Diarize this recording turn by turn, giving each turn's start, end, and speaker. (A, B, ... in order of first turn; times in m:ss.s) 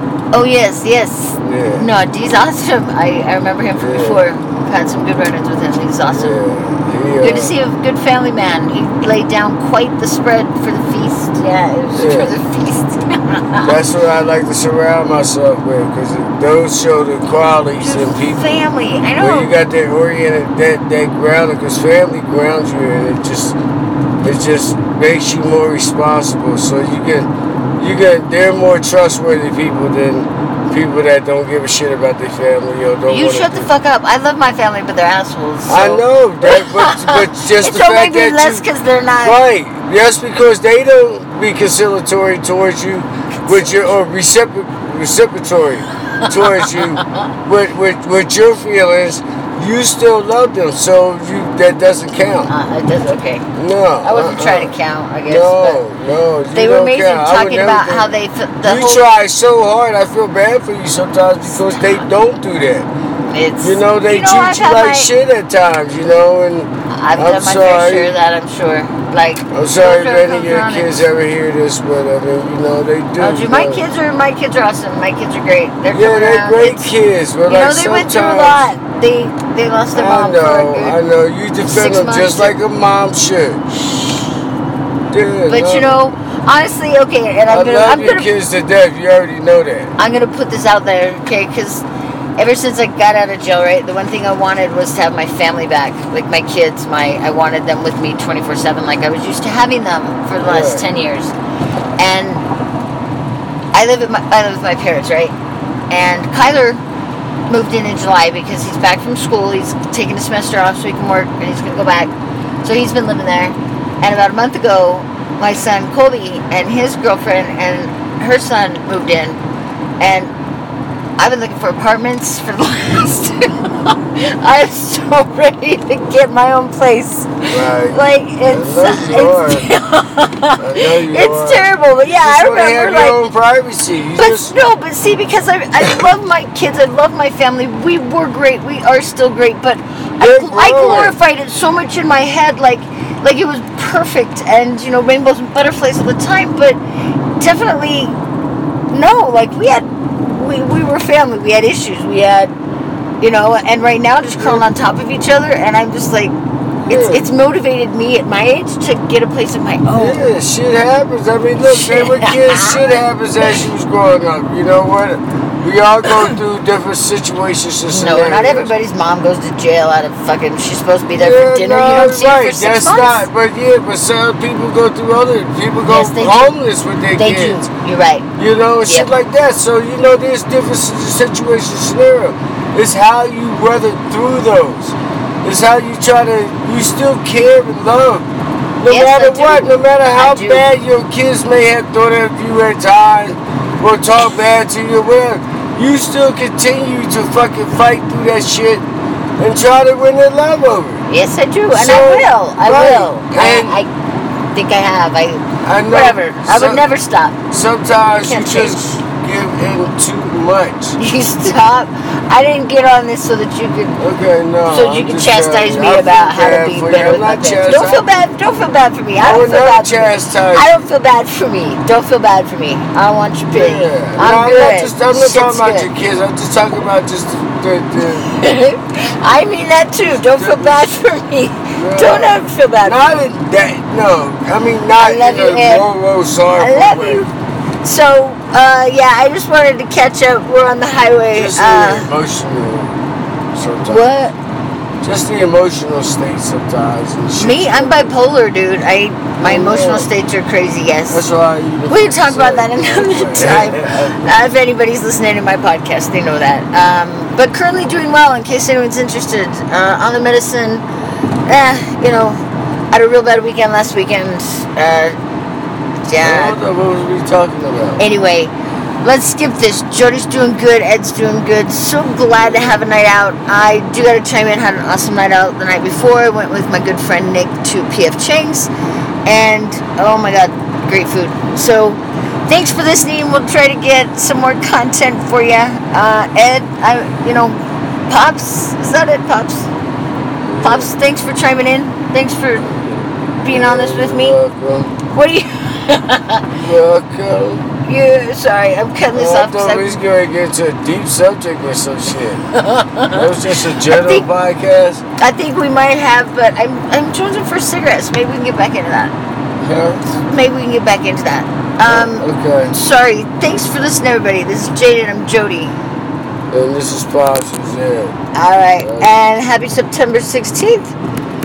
0:00.3-0:06.4 A
0:01.4-0:01.9 B
0:03.7-0:04.3 B
0:06.1-0:07.6 B
0:07.2-0:13.8 A
0:11.9-0:12.4 B
0:13.6-0:18.6 B
0:17.8-0:19.5 A
0:19.2-0:23.6 B
0:24.2-0:33.7 B
0:33.1-0:39.4 A
0:35.7-0:38.6 B
0:39.2-0:52.5 B
0:46.2-0:47.3 A
0:52.5-0:53.5 A
0:53.5-0:58.1 B
0:54.0-0:55.8 A
0:56.5-0:59.1 A
0:58.6-1:02.9 B
1:03.3-1:05.1 A
1:03.6-1:08.1 B
1:06.9-1:11.1 A
1:09.5-1:13.8 B
1:13.2-1:16.9 A
1:15.9-1:18.6 B
1:17.5-1:21.0 A
1:19.9-1:23.6 B
1:21.6-1:22.6 A
1:23.7-1:24.3 A
1:25.1-1:26.0 B
1:25.5-1:28.3 A
1:27.5-1:29.9 B
1:30.0-1:31.8 A
1:32.4-1:41.3 A
1:40.4-1:40.8 B
1:42.0-1:42.5 A
1:43.7-1:45.3 A
1:45.9-1:46.8 A
1:47.5-1:52.1 A
1:52.6-1:59.4 A
2:00.0-2:00.3 A
2:01.2-2:13.2 A
2:07.5-2:09.7 B
2:10.6-2:14.5 B
2:14.2-2:26.8 A
2:20.2-2:21.2 B
2:27.4-2:28.2 A
2:28.9-2:32.6 A
2:33.2-2:40.2 A
2:34.3-2:34.6 B
2:36.9-2:37.3 B
2:39.9-2:48.7 B
2:41.6-2:42.9 A
2:47.9-2:53.3 A
2:51.2-2:57.6 B
2:55.8-2:56.5 A
2:57.1-2:58.3 A
2:58.4-3:08.3 B
2:58.8-2:59.1 A
3:08.8-3:18.8 B
3:08.9-3:10.7 A
3:19.4-3:21.0 B
3:21.1-3:23.9 A
3:21.7-3:23.8 B
3:24.5-3:27.4 A
3:25.6-3:26.8 B
3:27.5-3:31.0 B
3:28.2-3:29.0 A
3:31.0-3:34.0 A
3:34.0-3:38.0 B
3:34.6-3:45.9 A
3:39.2-3:40.8 B
3:43.5-3:48.3 B
3:48.0-3:53.2 A
3:50.2-3:51.1 B
3:51.7-3:57.2 B
3:55.0-3:55.9 A
3:56.6-3:57.3 A
3:57.8-4:02.1 A
4:01.3-4:03.0 B
4:03.5-4:04.1 B
4:03.8-4:04.4 A
4:05.0-4:08.2 B
4:07.4-4:11.2 A
4:09.4-4:10.1 B
4:11.1-4:14.3 B
4:11.9-4:20.8 A
4:21.4-4:25.2 A
4:26.0-4:26.6 A
4:26.2-4:28.0 B
4:28.0-4:38.7 A
4:32.4-4:32.8 B
4:39.2-4:49.7 A
4:50.4-4:50.9 B
4:50.6-4:52.8 A
4:52.7-4:54.9 B
4:53.4-4:54.4 A
4:55.1-4:56.6 A
4:56.5-4:57.6 B
4:57.8-5:00.0 A
4:59.1-5:02.5 B
5:02.5-5:04.3 A
5:03.1-5:05.0 B
5:05.2-5:09.1 A
5:09.6-5:10.2 B
5:10.2-5:15.7 A
5:11.8-5:12.8 B
5:16.5-5:18.2 B
5:18.3-5:21.0 A
5:18.8-5:19.1 B